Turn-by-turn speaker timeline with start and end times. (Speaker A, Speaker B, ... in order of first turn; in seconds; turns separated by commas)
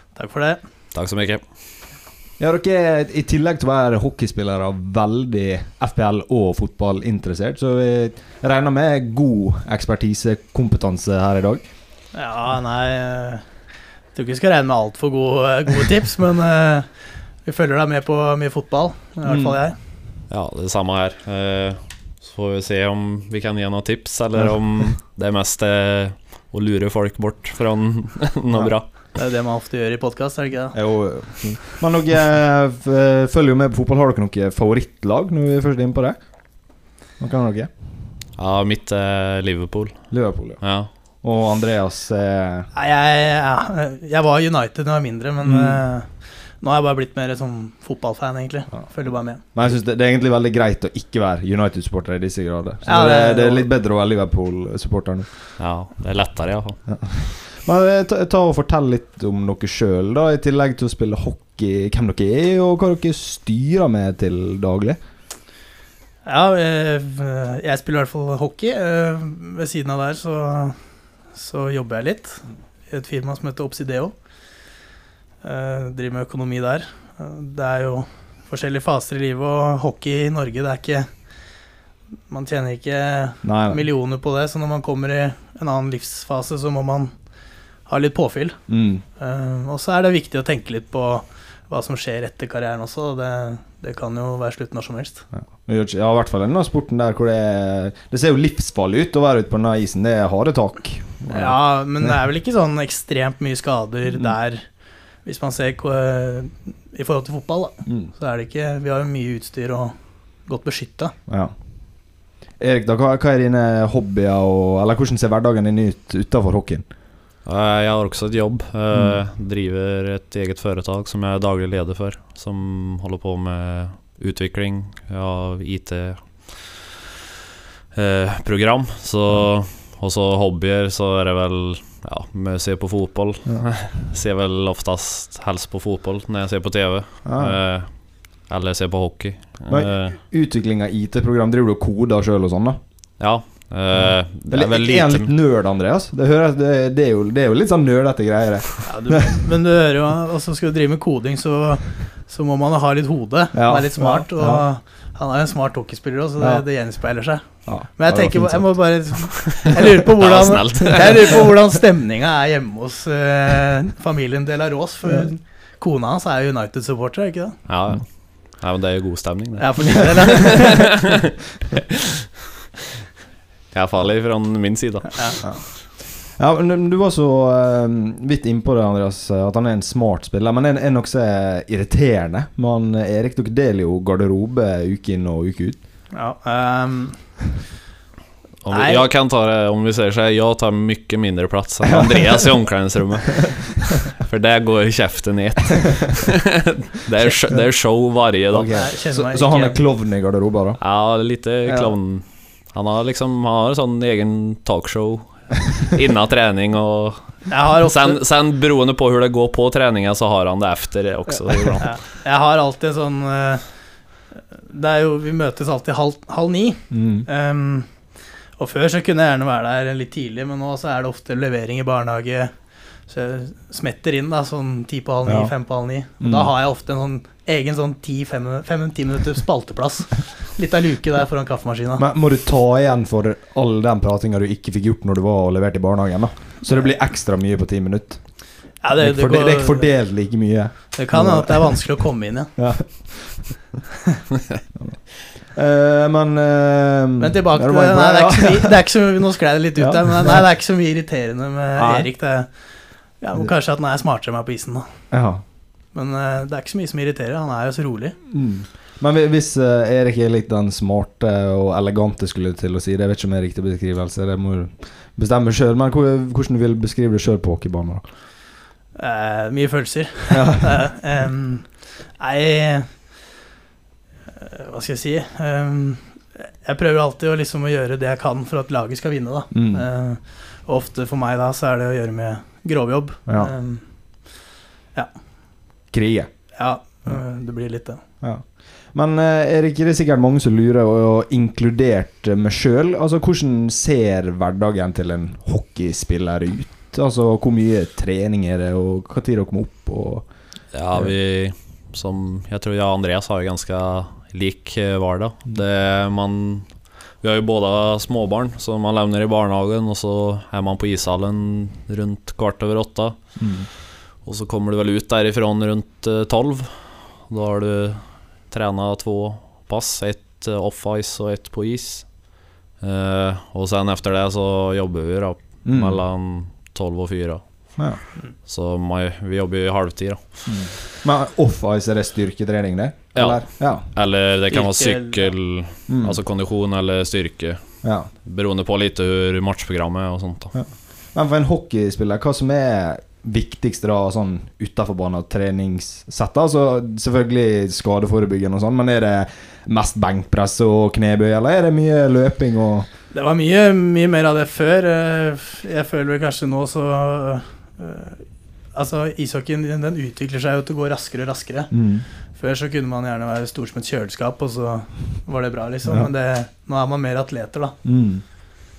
Speaker A: 0.1-0.6, Speaker B: 0.9-1.5, Speaker C: 2.4-11.6, Speaker A: 12.1-19.8, Speaker C: 19.2-19.6, Speaker B: 20.3-28.9, Speaker A: 29.1-31.4, Speaker C: 30.7-37.7, Speaker B: 38.4-40.9, Speaker C: 40.1-42.7, Speaker A: 42.7-49.4, Speaker C: 45.4-45.8, Speaker C: 48.7-55.4, Speaker A: 52.9-53.7, Speaker B: 55.6-56.8, Speaker C: 56.9-65.0, Speaker A: 66.2-74.7, Speaker A: 75.4-81.7, Speaker A: 82.3-95.3, Speaker C: 83.4-83.8, Speaker C: 88.7-89.0, Speaker C: 95.3-102.2, Speaker A: 101.3-111.2, Speaker C: 111.3-116.9, Speaker B: 117.4-126.9, Speaker C: 118.9-119.2, Speaker B: 127.9-140.2, Speaker C: 137.2-137.6, Speaker C: 139.7-143.3, Speaker B: 143.2-145.3, Speaker C: 143.9-149.2, Speaker A: 148.9-167.6, Speaker C: 153.5-154.7, Speaker C: 156.4-159.4, Speaker B: 160.2-161.5, Speaker B: 167.7-170.9, Speaker A: 169.6-170.9, Speaker B: 173.7-175.6, Speaker C: 175.4-185.8, Speaker A: 186.1-187.4, Speaker B: 188.6-198.9, Speaker A: 188.7-189.1, Speaker C: 191.9-192.3, Speaker C: 198.5-201.9, Speaker A: 198.7-199.8, Speaker B: 200.8-212.0, Speaker A: 207.5-208.2, Speaker A: 211.8-232.1, Speaker C: 216.9-217.3, Speaker C: 225.2-226.5, Speaker C: 232.0-243.6, Speaker A: 238.8-240.4, Speaker A: 240.9-243.1, Speaker C: 244.7-249.0, Speaker A: 247.2-258.2, Speaker C: 249.8-250.5, Speaker C: 251.8-252.1, Speaker C: 255.1-255.4, Speaker C: 258.3-268.1, Speaker A: 268.9-273.2, Speaker C: 270.3-270.9, Speaker A: 274.4-284.4, Speaker C: 279.5-279.9, Speaker C: 283.3-283.5, Speaker A: 284.9-285.7, Speaker C: 285.9-287.3, Speaker A: 286.5-288.0, Speaker C: 288.0-301.1, Speaker B: 300.7-330.8, Speaker C: 313.4-313.7, Speaker C: 325.6-326.0, Speaker C: 330.5-333.9, Speaker B: 333.1-340.7, Speaker A: 334.5-335.4, Speaker C: 335.9-336.2, Speaker C: 337.8-338.1, Speaker C: 340.5-352.9, Speaker A: 353.1-367.8, Speaker C: 361.7-362.1, Speaker C: 365.9-366.1, Speaker C: 367.8-368.2